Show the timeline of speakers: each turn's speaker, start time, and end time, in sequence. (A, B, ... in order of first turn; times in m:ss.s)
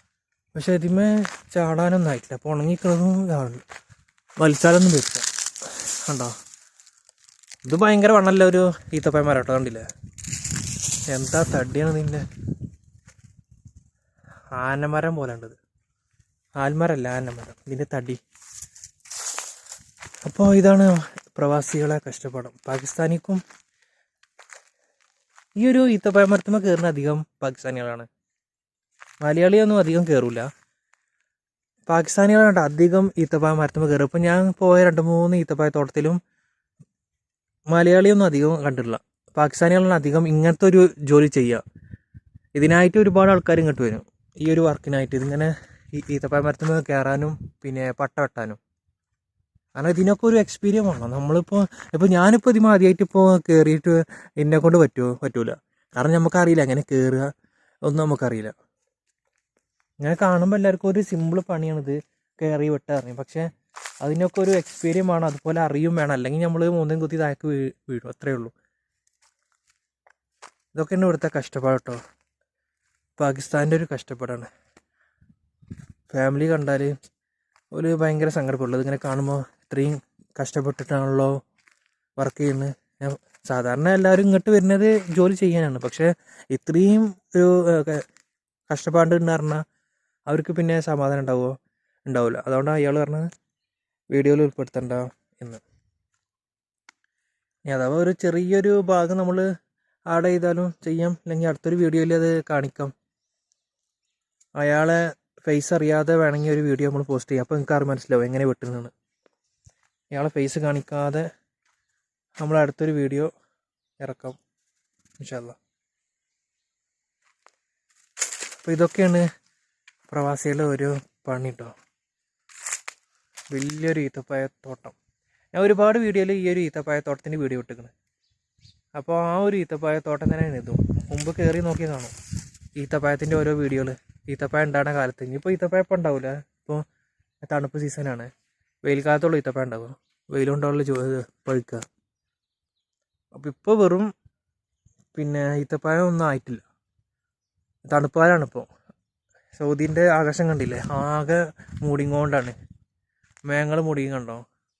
0:00.6-0:03.6 A
0:04.4-0:06.4 A
0:07.7-0:09.9 A
0:11.1-0:12.2 A
0:14.5-0:15.6 A
0:16.6-0:18.2 A
0:20.2-0:23.4 A
0:25.6-0:28.1 A
0:29.2-0:30.5 A
0:31.9-0:36.2 A
0:37.7-0:41.6 A
0:42.6-0:48.6 A
0:49.8-0:57.3 A
0:57.9-0:58.5 A
1:00.0-1:03.5 A
1:04.0-1:08.5 A
1:10.7-1:12.0 A
1:13.2-1:14.5 A
1:16.1-1:16.9 A
1:17.7-1:21.3 A
1:22.2-1:28.0 A
1:28.7-1:29.6 A
1:30.3-1:31.5 A
1:32.1-1:33.3 A
1:34.1-1:35.6 A
1:37.7-1:39.4 A
1:40.1-1:42.9 A
1:44.6-1:48.9 A
1:50.1-1:51.2 A
1:52.4-1:53.3 A
1:54.0-1:54.4 A
1:55.2-1:55.6 A
1:58.6-1:59.2 A
2:00.1-2:01.7 A
2:03.5-2:05.0 A
2:05.5-2:07.9 A
2:08.9-2:12.1 A
2:12.8-2:16.8 A
2:17.4-2:18.3 A
2:18.8-2:21.8 A
2:23.3-2:24.1 A
2:25.2-2:26.6 A
2:27.9-2:28.7 A
2:29.6-2:32.5 A
2:33.5-2:34.4 A